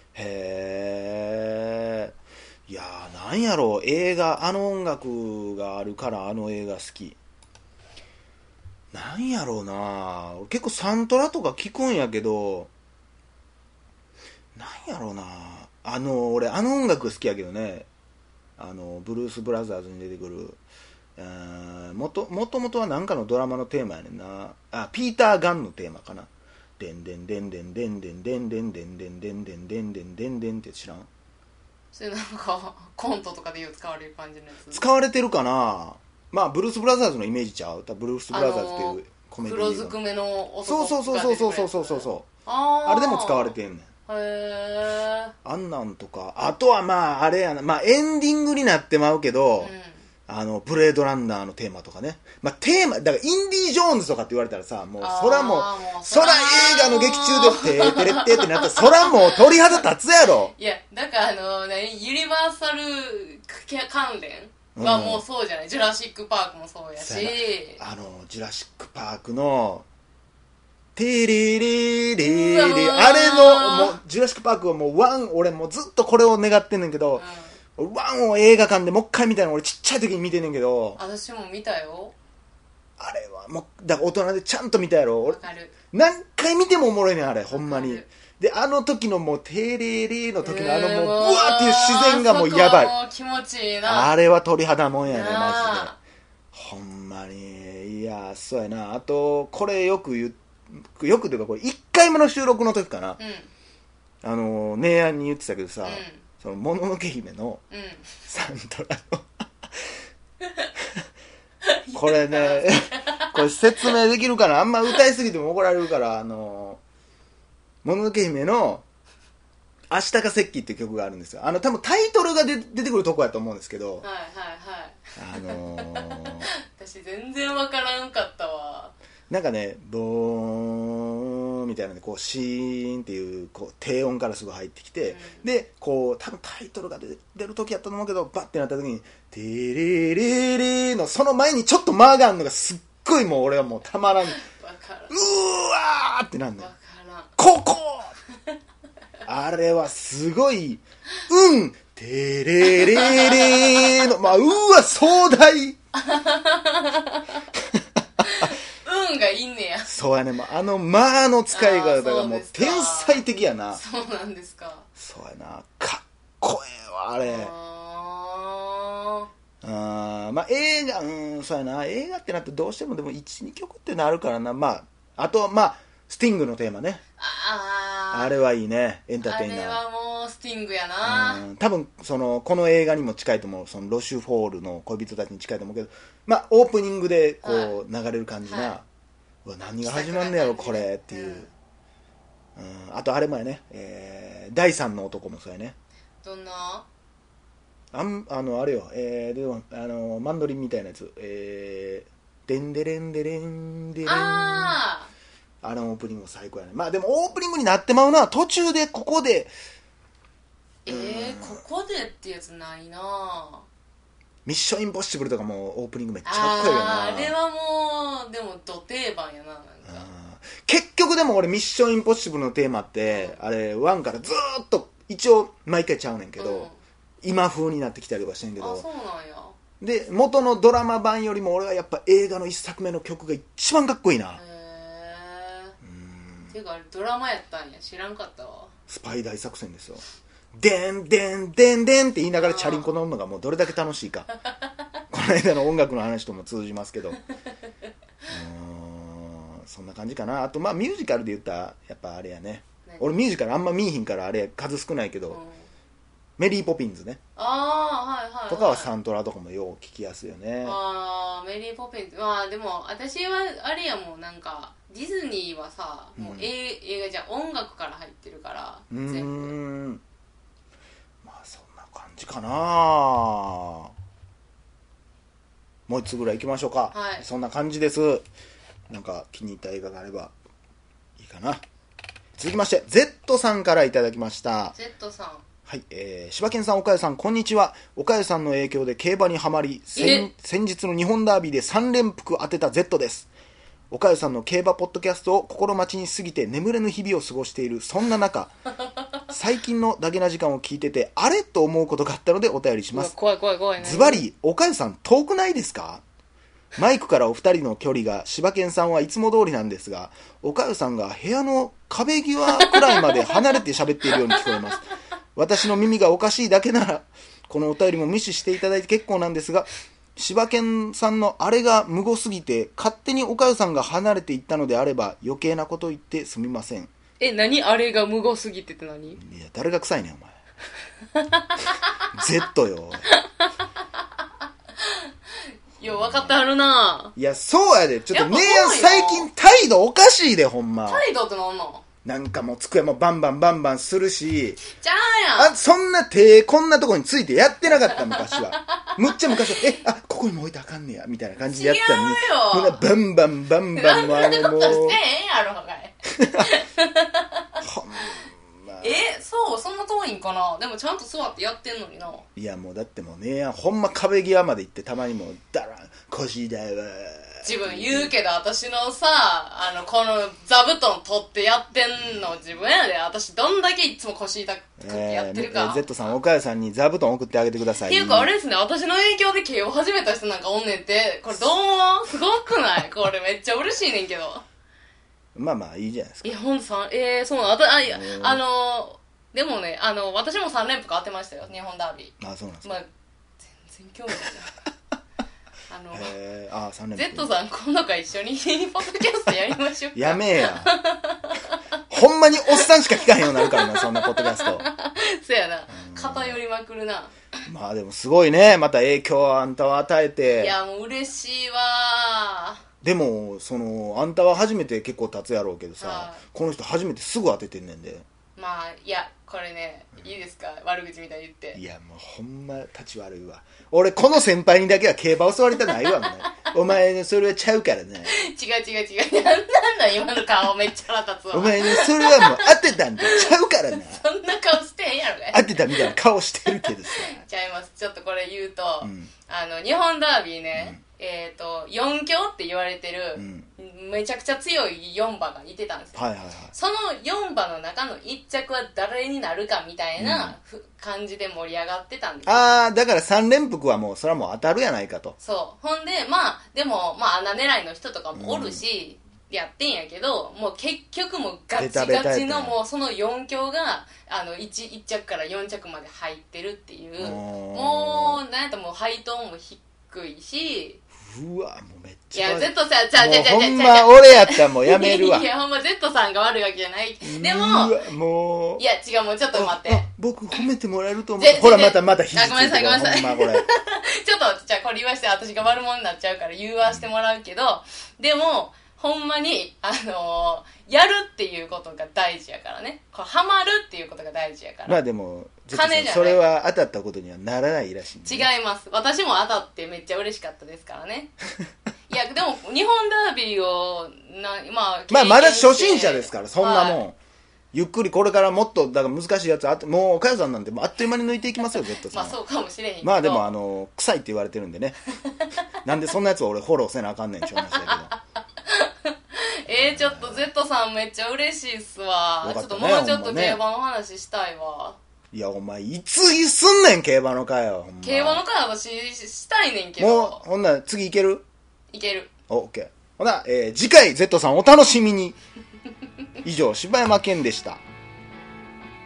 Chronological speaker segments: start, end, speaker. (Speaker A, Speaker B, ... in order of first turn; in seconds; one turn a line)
Speaker A: 0.1-2.1
Speaker A: 2.7-7.2
Speaker A: 8.9-12.7
Speaker A: 14.5-17.9
Speaker A: 18.6-20.6
Speaker A: 21.2-31.1
Speaker B: 31.9-34.8
Speaker A: 34.7-40.0
Speaker B: 38.3-43.5
Speaker A: 40.6-42.3
Speaker A: 42.8-43.9
Speaker B: 44.1-45.3
Speaker A: 45.4-49.7
Speaker B: 49.6-50.0
Speaker A: 50.3-60.5
Speaker B: 55.0-59.8
Speaker B: 60.5-67.8
Speaker A: 64.7-65.2
Speaker A: 67.0-69.8
Speaker A: 70.9-77.2
Speaker B: 72.2-74.0
Speaker B: 77.2-77.6
Speaker A: 77.8-81.0
Speaker B: 81.0-82.1
Speaker A: 83.0-85.4
Speaker B: 85.2-85.7
Speaker A: 85.9-93.0
Speaker B: 87.5-88.1
Speaker B: 90.4-94.1
Speaker A: 93.8-95.9
Speaker B: 95.0-96.0
Speaker A: 96.5-103.2
Speaker B: 103.2-103.5
Speaker A: 104.2-107.6
Speaker B: 105.8-106.2
Speaker B: 107.7-108.1
Speaker A: 108.3-109.3
Speaker B: 111.6-113.2
Speaker A: 111.9-116.8
Speaker A: 117.8-118.8
Speaker A: 119.9-124.0
Speaker B: 124.0-128.9
Speaker A: 125.2-126.5
Speaker A: 129.3-144.4
Speaker B: 135.1-135.4
Speaker B: 144.2-145.2
Speaker A: 145.1-146.7
Speaker B: 146.6-147.3
Speaker A: 147.4-148.1
Speaker A: 149.2-155.8
Speaker B: 152.8-154.1
Speaker B: 155.9-157.4
Speaker B: 158.2-159.9
Speaker A: 159.8-163.8
Speaker B: 161.5-164.8
Speaker A: 164.9-167.5
Speaker B: 167.2-169.3
Speaker A: 169.6-177.0
Speaker B: 177.2-178.4
Speaker A: 178.1-179.8
Speaker B: 179.2-181.4
Speaker A: 181.0-188.8
Speaker B: 187.4-187.8
Speaker B: 188.4-188.8
Speaker A: 189.4-191.5
Speaker B: 189.8-191.5
Speaker A: 192.6-195.8
Speaker B: 196.2-196.8
Speaker A: 197.9-204.8
Speaker B: 204.1-205.1
Speaker A: 205.6-209.5
Speaker B: 210.8-213.7
Speaker A: 210.9-211.6
Speaker A: 214.4-217.3
Speaker B: 216.2-220.1
Speaker A: 219.8-226.7
Speaker B: 223.1-223.4
Speaker B: 226.4-226.8
Speaker A: 227.2-228.8
Speaker B: 228.6-229.6
Speaker A: 229.8-234.4
Speaker B: 234.3-235.7
Speaker A: 235.8-236.5
Speaker B: 236.5-238.7
Speaker A: 238.9-240.0
Speaker A: 240.5-244.3
Speaker B: 242.4-242.9
Speaker A: 245.1-247.2
Speaker A: 248.3-255.4
Speaker B: 252.8-253.1
Speaker B: 255.3-255.7
Speaker A: 256.4-257.2
Speaker B: 257.4-258.9
Speaker A: 258.5-260.8
Speaker B: 260.6-269.5
Speaker A: 266.2-266.5
Speaker A: 268.9-270.0
Speaker A: 271.2-273.9
Speaker A: 275.9-278.2
Speaker B: 276.9-277.2
Speaker A: 278.9-280.3
Speaker A: 281.2-281.6
Speaker A: 282.4-284.8
Speaker B: 284.7-285.4
Speaker A: 285.7-293.3
Speaker B: 289.9-290.3
Speaker A: 293.9-298.5
Speaker A: 299.3-303.1
Speaker B: 302.9-304.2
Speaker A: 303.8-306.0
Speaker A: 306.8-326.9
Speaker B: 312.6-313.2
Speaker B: 327.2-329.2
Speaker A: 329.2-330.4
Speaker B: 331.1-331.9
Speaker A: 332.1-333.1
Speaker B: 333.1-333.7
Speaker B: 334.8-335.1
Speaker B: 335.8-337.1
Speaker A: 335.8-336.4
Speaker A: 337.1-341.0
Speaker B: 338.1-339.3
Speaker B: 340.9-341.8
Speaker A: 342.0-344.6
Speaker B: 344.6-345.6
Speaker A: 345.4-355.0
Speaker B: 347.8-349.6
Speaker B: 351.4-352.8
Speaker B: 353.7-357.4
Speaker A: 356.2-356.5
Speaker A: 357.6-359.0
Speaker B: 358.8-362.2
Speaker A: 362.4-368.1
Speaker B: 367.4-376.1
Speaker A: 374.8-378.3
Speaker B: 377.8-384.4
Speaker A: 385.3-386.4
Speaker B: 386.2-392.9
Speaker A: 387.8-388.4
Speaker A: 392.2-392.8
Speaker B: 393.4-394.5
Speaker B: 395.7-396.1
Speaker A: 395.9-397.3
Speaker B: 396.9-401.6
Speaker A: 399.9-400.7
Speaker A: 401.9-404.6
Speaker B: 403.2-407.1
Speaker A: 405.7-406.4
Speaker A: 407.4-410.6
Speaker B: 410.4-412.6
Speaker A: 412.8-418.0
Speaker B: 415.8-416.2
Speaker B: 418.4-421.6
Speaker A: 421.5-428.1
Speaker B: 428.0-432.5
Speaker A: 431.3-434.0
Speaker B: 433.0-433.3
Speaker B: 433.9-435.9
Speaker A: 435.3-437.2
Speaker B: 436.6-446.0
Speaker A: 438.8-439.1
Speaker A: 440.5-440.8
Speaker A: 443.1-443.5
Speaker A: 445.9-446.5
Speaker B: 446.5-452.6
Speaker A: 450.0-450.4
Speaker A: 452.2-455.1
Speaker B: 455.2-470.8
Speaker A: 458.1-458.6
Speaker A: 461.6-462.6
Speaker A: 467.0-468.2
Speaker A: 471.0-475.2
Speaker B: 472.1-477.8
Speaker A: 477.0-478.6
Speaker B: 478.6-479.8
Speaker A: 479.3-483.4
Speaker B: 481.2-494.8
Speaker A: 494.6-498.3
Speaker B: 495.5-496.3
Speaker B: 498.0-501.1
Speaker B: 501.9-506.8
Speaker A: 504.9-507.0
Speaker A: 507.5-512.2
Speaker B: 511.9-513.3
Speaker A: 512.8-514.8
Speaker A: 515.6-517.9
Speaker B: 517.4-524.8
Speaker A: 519.5-520.3
Speaker A: 522.2-523.4
Speaker A: 525.1-528.2
Speaker B: 527.8-530.2
Speaker A: 529.8-531.2
Speaker B: 531.7-532.1
Speaker A: 532.3-535.1
Speaker A: 536.2-537.6